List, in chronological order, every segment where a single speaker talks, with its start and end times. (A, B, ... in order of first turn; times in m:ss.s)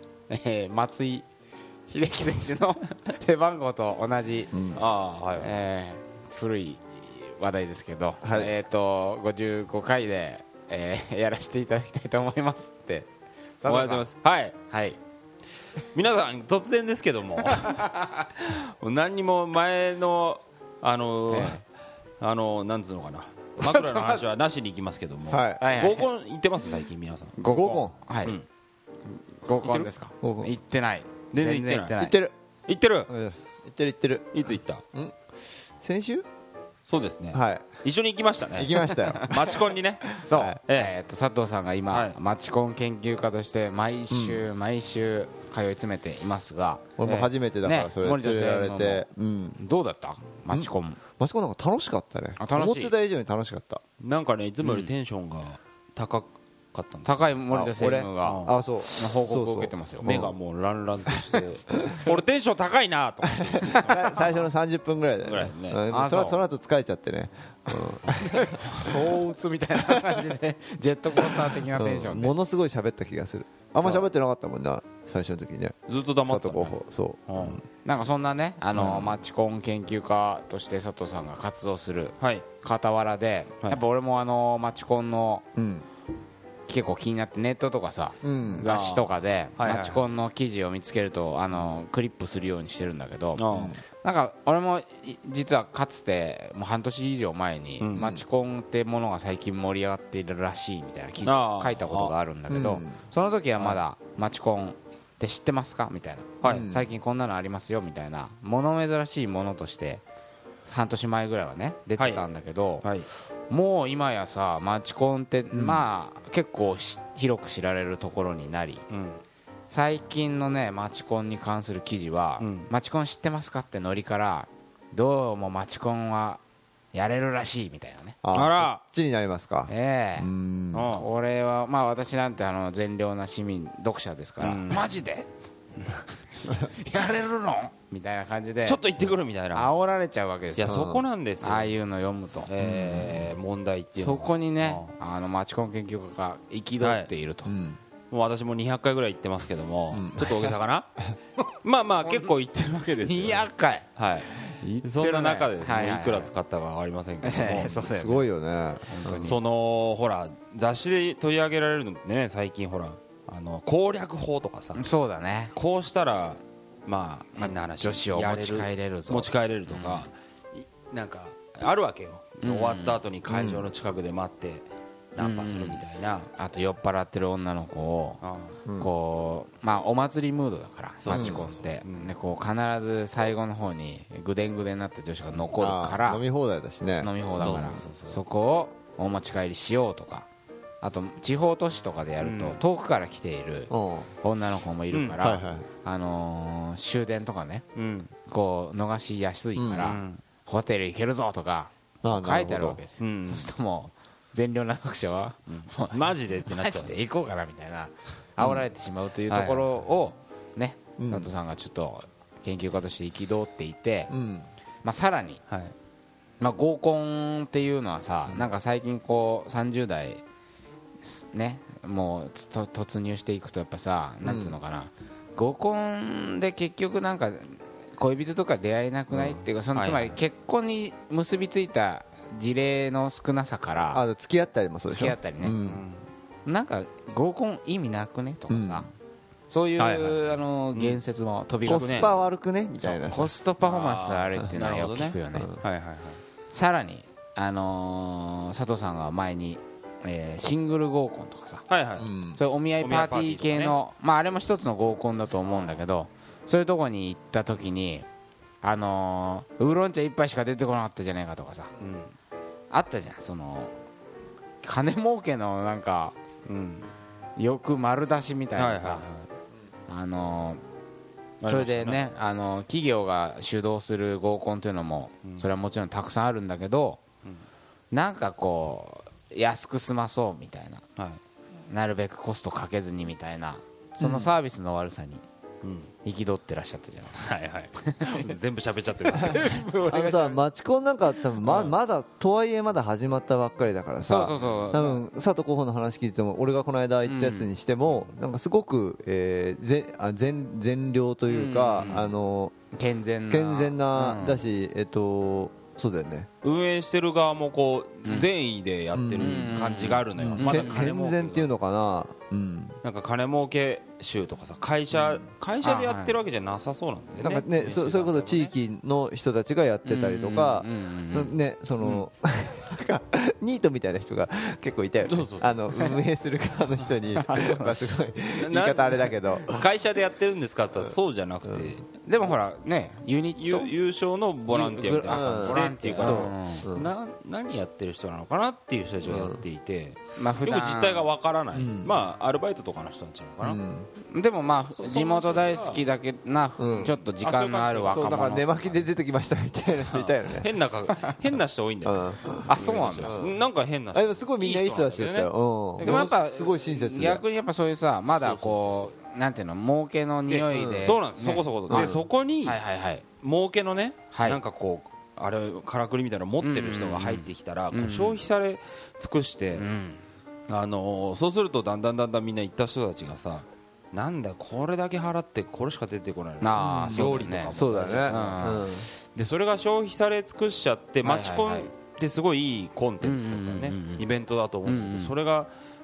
0:00.3-0:01.2 A
0:01.9-0:04.5 A
0:04.5-0:04.8 B
0:04.7-0:05.6 C
0:05.4-0:13.1 A
0:08.2-0:08.5 B
0:13.6-0:14.1 A
0:13.6-0:14.6 C
0:14.7-0:15.0 A
0:15.9-0:21.6 C
0:17.5-0:18.2 A
0:21.3-0:21.6 A
0:22.2-0:27.4 C
0:23.6-0:24.2 A
0:25.3-0:25.6 B
0:25.6-0:26.1 A
0:27.4-0:28.4 A
0:27.5-0:27.9 B
0:29.1-0:32.2 A
0:29.6-0:29.9 C
0:30.2-0:30.5 B
0:31.3-0:31.9 C
0:32.0-0:32.3 B
0:32.7-0:33.1 C
0:33.1-0:34.3 B
0:34.3-0:34.8 C
0:35.8-0:36.2 B
0:36.9-0:40.9 C
0:37.3-0:37.6 B
0:38.5-0:40.6 B
0:39.0-0:39.2 A
0:40.2-0:46.8 A
0:41.9-0:42.2 C
0:44.1-0:44.5 B
0:47.0-0:49.6 B
0:47.0-0:47.3 C
0:47.6-0:49.0 A
0:49.6-0:51.0 A
0:50.5-0:53.8 B
0:52.4-0:52.9 A
0:54.0-0:57.3 C
0:54.6-0:54.9 B
0:57.0-1:00.1 A
0:57.5-1:00.3 B
0:58.2-0:58.5 C
1:00.0-1:04.4 C
1:01.0-1:02.0 B
1:03.5-1:08.4 B
1:03.6-1:04.0 A
1:05.2-1:05.8 C
1:05.9-1:06.4 A
1:07.7-1:12.3 A
1:08.4-1:09.0 C
1:11.6-1:17.6 B
1:15.9-1:17.6 C
1:17.8-1:25.4 A
1:18.7-1:19.2 B
1:22.2-1:22.4 C
1:25.6-1:25.8 B
1:26.7-1:33.4 A
1:28.2-1:28.6 B
1:28.6-1:30.0 C
1:33.4-1:33.8 C
1:33.5-1:33.8 B
1:34.0-1:50.0 A
1:37.8-1:38.0 C
1:37.9-1:38.2 B
1:41.2-1:42.1 C
1:42.5-1:43.0 B
1:46.4-1:46.7 C
1:46.4-1:46.9 B
1:50.7-1:52.9 A
1:52.8-1:53.1 C
1:53.5-1:58.8 A
1:55.5-1:55.8 B
1:58.9-1:59.2 C
1:59.7-2:06.4 A
2:02.4-2:02.7 C
2:06.9-2:08.2 A
2:08.2-2:10.9 B
2:08.3-2:08.8 C
2:09.7-2:10.3 A
2:10.7-2:11.1 C
2:10.9-2:15.3 A
2:14.4-2:14.8 C
2:15.9-2:18.8 A
2:18.6-2:19.7 C
2:19.5-2:20.9 A
2:20.6-2:21.7 C
2:20.6-2:21.0 B
2:21.4-2:22.5 A
2:22.4-2:24.9 C
2:22.6-2:23.2 B
2:23.9-2:27.5 A
2:26.8-2:27.1 C
2:27.4-2:27.8 B
2:28.1-2:30.9 C
2:29.9-2:30.6 B
2:31.6-2:37.9 C
2:32.0-2:32.3 A
2:33.0-2:33.9 A
2:34.6-2:36.3 A
2:37.2-2:38.2 A
2:37.6-2:39.3 B
2:38.9-2:39.4 A
2:39.0-2:44.8 C
2:44.7-2:45.5 A
2:45.5-2:56.3 C
2:47.4-2:50.1 A
2:52.4-2:53.0 A
2:53.3-2:53.6 B
2:55.2-2:58.2 A
2:58.2-2:58.6 C
2:58.6-2:58.9 B
2:58.8-3:06.2 A
3:01.0-3:02.1 C
3:01.1-3:01.4 B
3:05.6-3:07.7 B
3:06.9-3:10.3 A
3:07.4-3:08.2 C
3:10.8-3:17.6 A
3:12.2-3:12.6 C
3:13.7-3:14.1 B
3:14.9-3:15.2 C
3:15.2-3:15.7 B
3:17.7-3:18.1 C
3:18.2-3:34.1 A
3:19.6-3:19.9 B
3:19.8-3:20.2 C
3:22.0-3:22.8 B
3:23.0-3:23.5 C
3:25.5-3:27.0 C
3:28.4-3:28.6 B
3:29.3-3:29.7 C
3:31.0-3:31.3 B
3:34.1-3:34.5 B
3:34.8-3:35.4 A
3:35.5-3:35.7 C
3:36.4-3:40.2 A
3:41.0-3:54.0 A
3:44.2-3:44.6 B
3:49.1-3:49.4 B
3:49.7-3:50.2 C
3:53.9-3:55.8 B
3:54.9-3:55.6 A
3:55.5-3:56.0 C
3:56.4-3:58.9 A
3:58.5-3:58.9 B
3:59.5-4:05.6 A
3:59.8-4:01.0 C
4:01.6-4:02.1 C
4:01.6-4:03.3 B
4:03.6-4:06.2 C
4:06.5-4:11.6 A
4:11.7-4:12.1 C
4:12.0-4:12.4 B
4:12.4-4:18.0 A
4:12.8-4:13.8 C
4:15.4-4:15.8 C
4:18.6-4:21.7 A
4:21.8-4:22.1 C
4:22.7-4:23.7 A
4:24.6-4:26.2 A
4:26.4-4:26.9 C
4:27.4-4:29.0 A
4:28.6-4:29.3 C
4:29.9-4:30.6 A
4:31.4-4:32.0 C
4:31.4-4:37.0 A
4:37.9-4:40.8 A
4:41.7-4:45.2 A
4:44.0-4:44.3 B
4:45.6-4:45.9 C
4:46.0-4:47.2 A
4:47.2-4:49.6 C
4:47.8-4:48.3 A
4:49.0-4:50.4 A
4:49.8-5:02.5 B
4:51.4-4:51.7 C
4:54.0-4:55.0 A
4:57.0-4:57.5 A
5:01.3-5:02.1 A
5:02.7-5:04.4 A
5:03.3-5:06.3 B
5:06.4-5:11.5 C
5:08.9-5:09.6 B
5:09.2-5:10.9 A
5:10.1-5:12.8 B
5:12.8-5:18.5 C
5:14.9-5:16.2 A
5:17.2-5:29.6 B
5:19.8-5:21.3 A
5:21.8-5:22.0 C
5:25.0-5:26.0 C
5:27.2-5:27.8 A
5:28.3-5:31.9 C
5:32.0-5:33.7 A
5:33.4-5:43.6 C
5:34.5-5:36.7 A
5:35.1-5:36.9 B
5:39.0-5:39.4 B
5:40.2-5:41.1 A
5:41.5-5:42.0 B
5:43.4-5:43.9 B
5:44.1-5:48.8 A
5:44.7-5:45.8 C
5:46.6-5:47.0 B
5:46.8-5:48.2 C
5:47.9-5:50.5 B
5:49.9-5:56.2 C
5:51.8-5:53.4 B
5:52.5-5:53.2 A
5:53.9-5:57.2 B
5:55.8-6:01.9 A
5:58.1-5:58.9 C
6:00.3-6:02.6 C
6:00.5-6:00.9 B
6:01.7-6:02.0 B
6:02.4-6:03.0 A
6:03.2-6:09.6 C
6:04.1-6:04.4 A
6:06.4-6:08.2 A
6:09.5-6:10.0 A
6:10.5-6:25.5 C
6:16.4-6:18.7 A
6:16.6-6:18.9 B
6:21.0-6:21.7 A
6:23.0-6:24.0 A
6:24.6-6:25.1 A